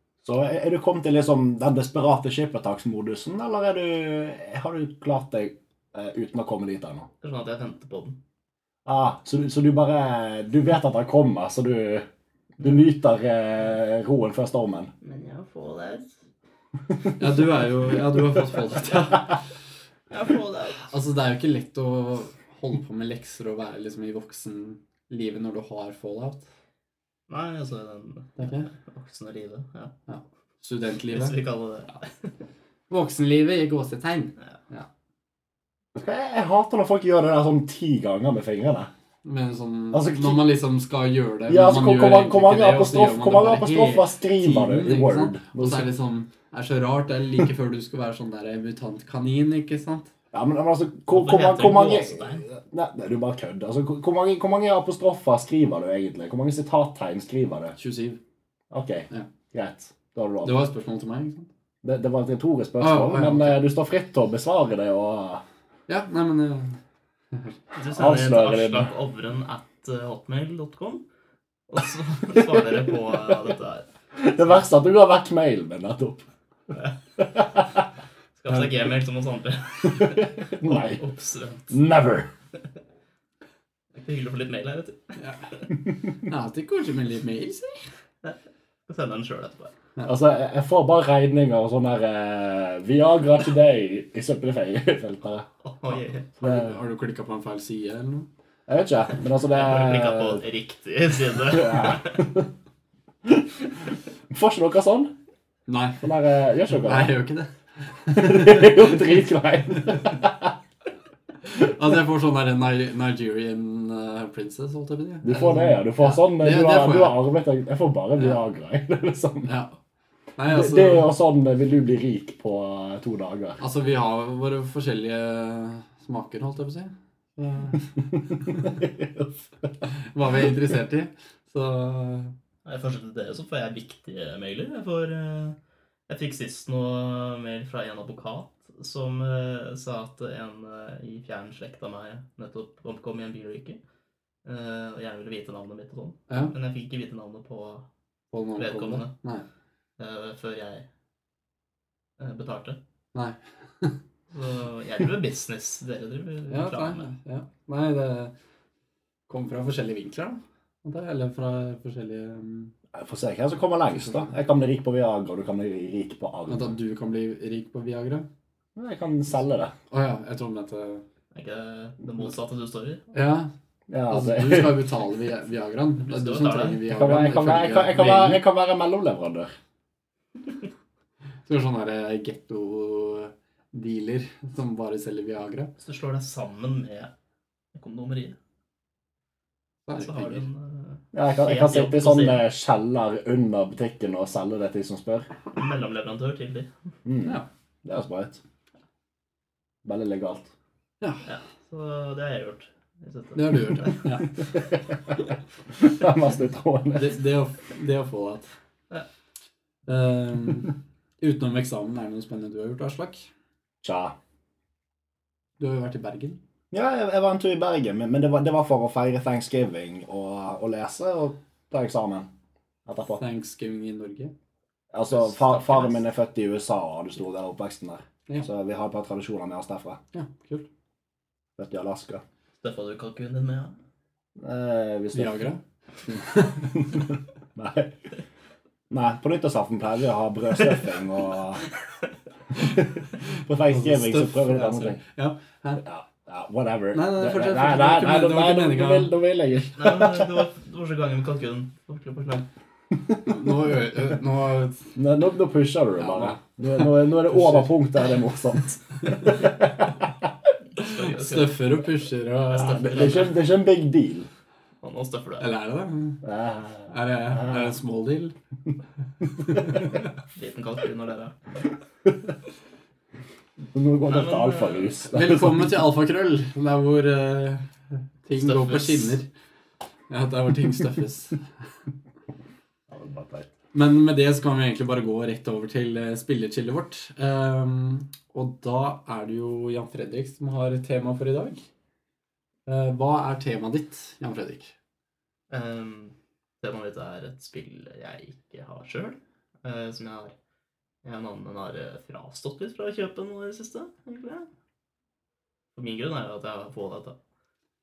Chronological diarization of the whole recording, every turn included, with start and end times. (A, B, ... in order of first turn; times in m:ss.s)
0:00.2-0:07.1 A
0:07.2-0:08.2 B
0:08.8-0:12.1 A
0:12.6-0:14.9 A
0:15.0-0:16.2 B
0:17.2-0:19.3 C
0:20.1-0:20.9 B
0:20.9-0:26.5 C
0:27.3-0:29.9 B
0:28.4-0:28.7 C
0:30.1-0:31.4 C
0:31.1-0:32.4 B
0:32.9-0:34.9 C
0:35.9-0:38.9 A
0:39.2-0:50.1 C
0:39.9-0:40.4 A
0:41.5-0:45.9 A
0:50.3-0:57.8 A
0:51.1-0:52.4 B
0:57.8-0:58.2 C
0:58.7-1:00.6 A
1:00.4-1:01.5 C
1:01.8-1:05.4 A
1:02.8-1:03.6 C
1:05.9-1:06.8 C
1:07.3-1:07.6 C
1:07.7-1:11.0 B
1:07.9-1:08.9 A
1:11.7-1:14.5 B
1:14.1-1:16.2 A
1:17.3-1:17.7 A
1:18.4-1:21.7 B
1:20.6-1:21.0 A
1:21.7-1:22.3 A
1:23.9-1:25.2 B
1:25.2-1:25.5 C
1:26.2-1:27.9 C
1:28.2-1:29.7 B
1:30.0-1:35.5 A
1:35.6-1:36.3 B
1:36.4-1:36.8 A
1:36.4-1:38.3 C
1:38.7-1:40.4 A
1:39.5-1:42.3 B
1:41.4-1:42.5 A
1:44.3-1:45.1 A
1:45.7-1:46.1 C
1:46.0-1:47.2 A
1:46.7-1:49.0 C
1:48.1-1:50.5 A
1:51.4-1:57.2 C
1:55.2-1:59.5 A
1:59.4-1:59.8 C
2:00.4-2:01.1 C
2:00.4-2:03.6 A
2:03.6-2:08.6 C
2:08.6-2:09.3 A
2:09.8-2:12.3 C
2:12.6-2:15.6 B
2:16.1-2:23.8 B
2:24.4-2:27.8 B
2:26.3-2:26.5 C
2:28.3-2:29.4 C
2:28.6-2:29.1 B
2:30.0-2:30.9 B
2:32.2-2:32.8 B
2:33.1-2:34.0 C
2:34.3-2:37.1 B
2:36.5-2:38.3 C
2:39.3-2:42.7 C
2:42.9-2:46.7 A
2:44.0-2:44.2 C
2:46.5-2:48.3 C
2:48.8-2:49.7 A
2:49.9-2:51.0 C
2:51.3-2:53.0 B
2:53.1-2:53.5 C
2:53.9-2:54.8 A
2:54.1-2:58.4 C
2:56.0-2:56.8 B
2:56.9-2:59.5 A
3:01.4-3:05.7 C
3:05.8-3:07.1 B
3:07.7-3:08.4 B
3:09.8-3:10.4 C
3:10.0-3:12.4 B
3:11.1-3:15.3 A
3:15.5-3:16.7 B
3:17.0-3:18.4 A
3:19.8-3:20.5 A
3:21.2-3:24.1 B
3:23.3-3:24.4 C
3:25.7-3:27.1 A
3:26.9-3:28.5 C
3:29.9-3:33.3 C
3:33.8-3:34.1 A
3:35.6-3:36.4 C
3:36.7-3:42.3 A
3:42.8-3:43.2 A
3:43.2-3:44.3 C
3:44.9-3:50.0 A
3:45.1-3:46.0 B
3:50.1-3:50.7 C
3:51.6-3:52.2 A
3:52.6-3:53.8 B
3:54.4-3:55.4 A
3:55.1-3:55.6 C
3:56.6-3:58.0 A
3:58.9-4:01.6 A
4:02.6-4:05.0 A
4:03.7-4:05.8 C
4:05.8-4:10.4 A
4:06.9-4:09.1 C
4:09.8-4:12.4 B
4:13.2-4:14.9 C
4:15.0-4:20.0 A
4:16.0-4:17.7 C
4:20.8-4:21.6 B
4:20.8-4:22.8 C
4:22.5-4:23.4 B
4:22.5-4:24.3 A
4:24.8-4:25.5 B
4:25.4-4:26.2 C
4:26.2-4:27.7 A
4:26.9-4:28.3 C
4:29.5-4:29.8 C
4:30.2-4:31.6 B
4:33.7-4:35.7 A
4:34.0-4:35.0 B
4:35.1-4:37.7 C
4:38.2-4:39.3 C
4:38.4-4:39.2 B
4:40.1-4:41.5 C
4:42.9-4:43.5 A
4:43.7-4:51.6 C
4:52.7-4:54.7 C
4:55.5-5:00.3 B
5:01.0-5:04.5 B
5:05.7-5:07.2 B